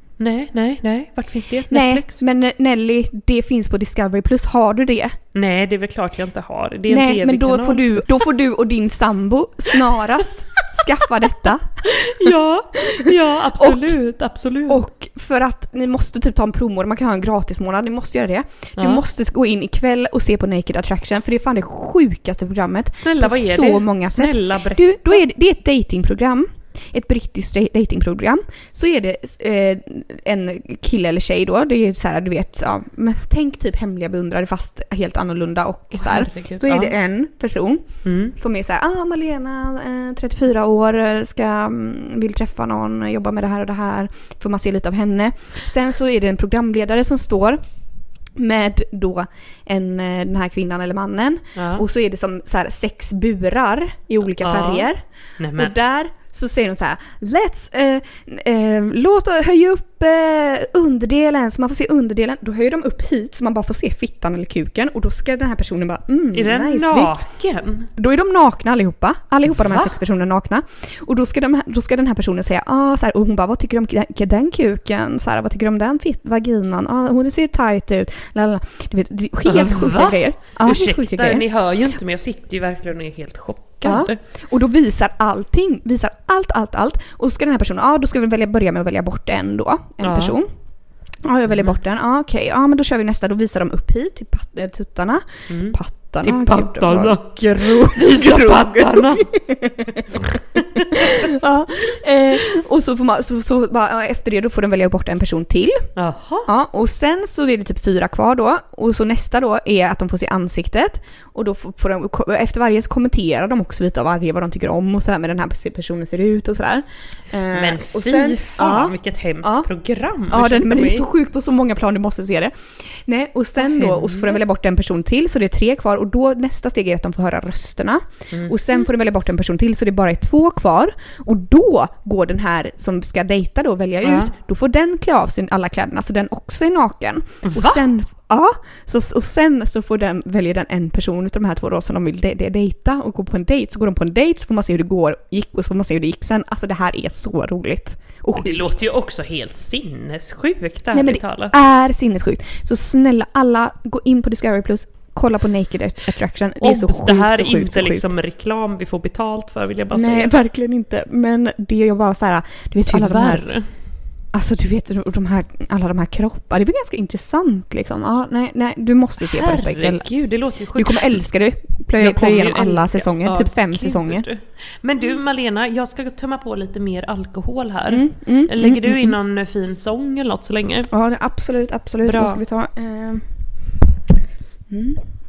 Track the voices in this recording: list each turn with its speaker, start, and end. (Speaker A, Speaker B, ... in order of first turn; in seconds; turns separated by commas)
Speaker A: 0.2-2.2, Speaker B: 1.7-5.2, Speaker A: 5.3-8.2, Speaker B: 6.9-12.3, Speaker A: 11.8-14.8, Speaker B: 12.9-13.9, Speaker B: 14.7-47.6, Speaker A: 18.8-19.0, Speaker A: 23.0-25.2, Speaker A: 35.9-37.0, Speaker A: 38.0-38.3, Speaker B: 48.4-55.0, Speaker A: 51.5-51.8, Speaker A: 54.4-55.7, Speaker B: 55.5-67.2, Speaker A: 66.3-67.9, Speaker B: 68.0-81.5, Speaker A: 69.6-69.9, Speaker A: 79.5-84.2, Speaker B: 83.8-90.5, Speaker A: 90.0-90.4, Speaker B: 91.2-105.9, Speaker A: 91.5-91.8, Speaker A: 95.5-99.3, Speaker A: 100.1-101.3, Speaker A: 106.0-106.5, Speaker B: 106.5-119.7, Speaker A: 117.5-121.1, Speaker B: 120.3-148.7, Speaker A: 123.6-124.4, Speaker A: 128.3-128.8, Speaker A: 134.0-134.3, Speaker A: 137.5-137.8, Speaker A: 148.4-151.5, Speaker B: 150.9-158.1, Speaker A: 156.6-160.3, Speaker B: 159.9-163.4, Speaker A: 162.9-163.7, Speaker B: 164.3-170.1, Speaker A: 169.2-171.2, Speaker B: 170.8-174.2, Speaker A: 172.0-180.9, Speaker B: 177.9-179.2, Speaker B: 180.9-183.3, Speaker A: 182.0-182.4, Speaker B: 184.7-185.0